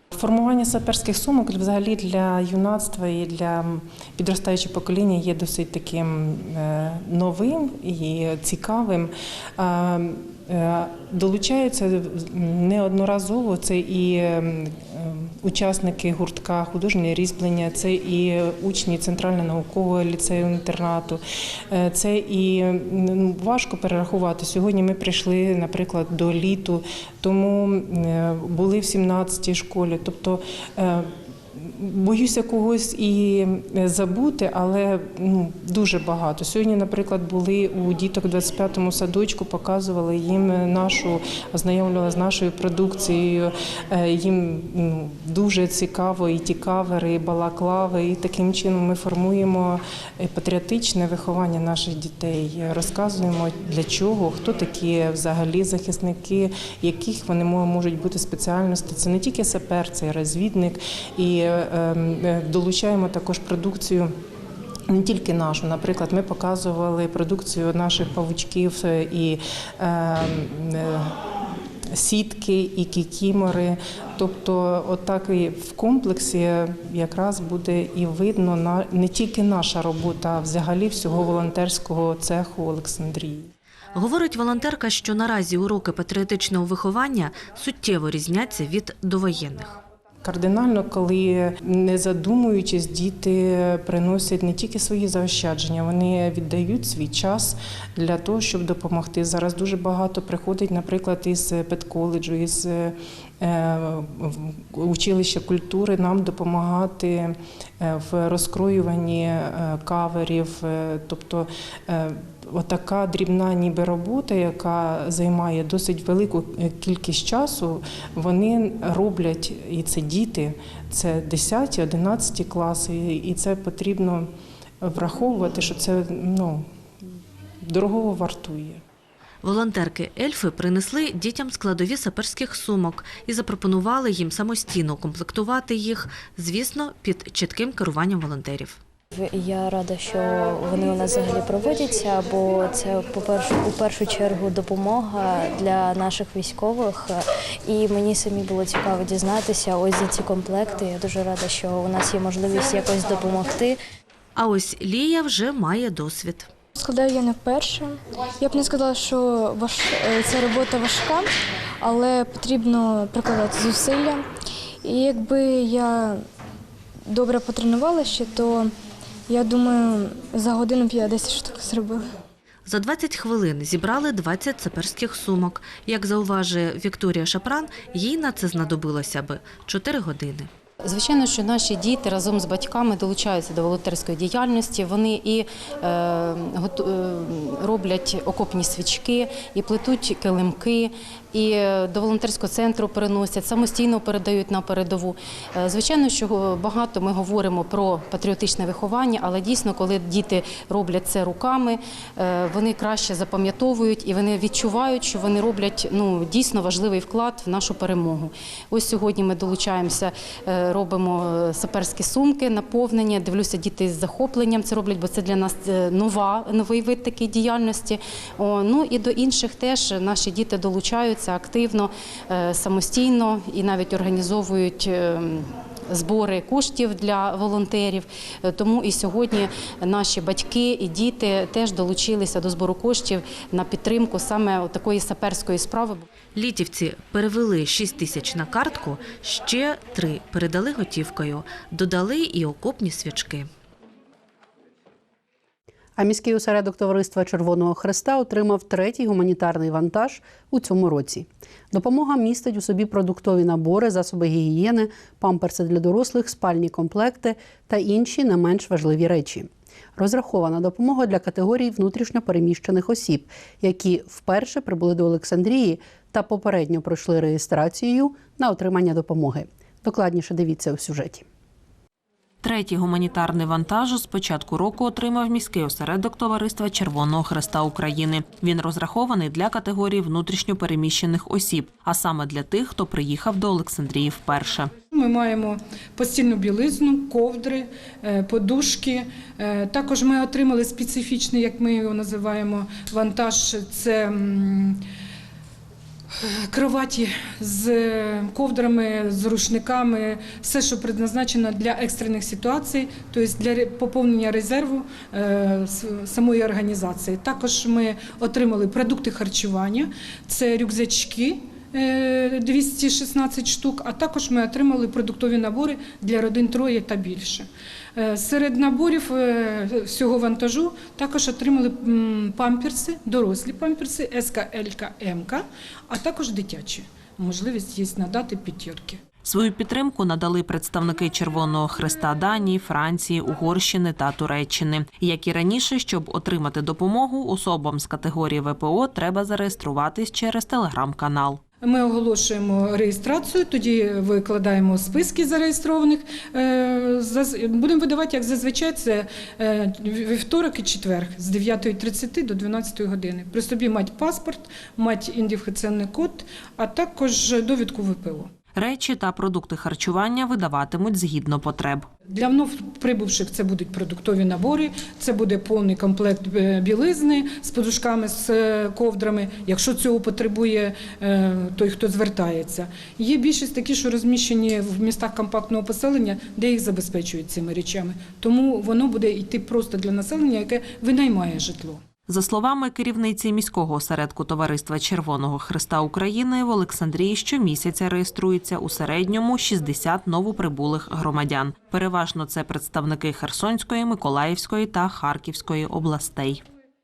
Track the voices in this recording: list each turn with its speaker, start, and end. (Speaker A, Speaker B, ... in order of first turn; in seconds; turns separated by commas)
Speaker A: 0.1-64.1, Speaker A: 64.9-71.1, Speaker A: 71.9-83.5, Speaker B: 83.9-89.8, Speaker A: 90.2-124.3, Speaker A: 124.8-126.7, Speaker A: 127.6-128.8, Speaker B: 129.4-138.8, Speaker C: 139.1-153.8, Speaker B: 154.4-156.5, Speaker D: 156.8-164.3, Speaker D: 164.8-166.2, Speaker D: 167.1-168.7, Speaker D: 169.3-172.1, Speaker B: 172.7-180.5, Speaker E: 180.8-236.1, Speaker B: 236.3-243.5, Speaker F: 246.0-271.2, Speaker G: 272.4-284.7, Speaker H: 284.9-294.8, Speaker H: 296.2-329.0, Speaker G: 329.2-341.4, Speaker H: 341.6-358.3, Speaker G: 358.6-361.9, Speaker H: 362.1-381.8, Speaker G: 382.1-396.4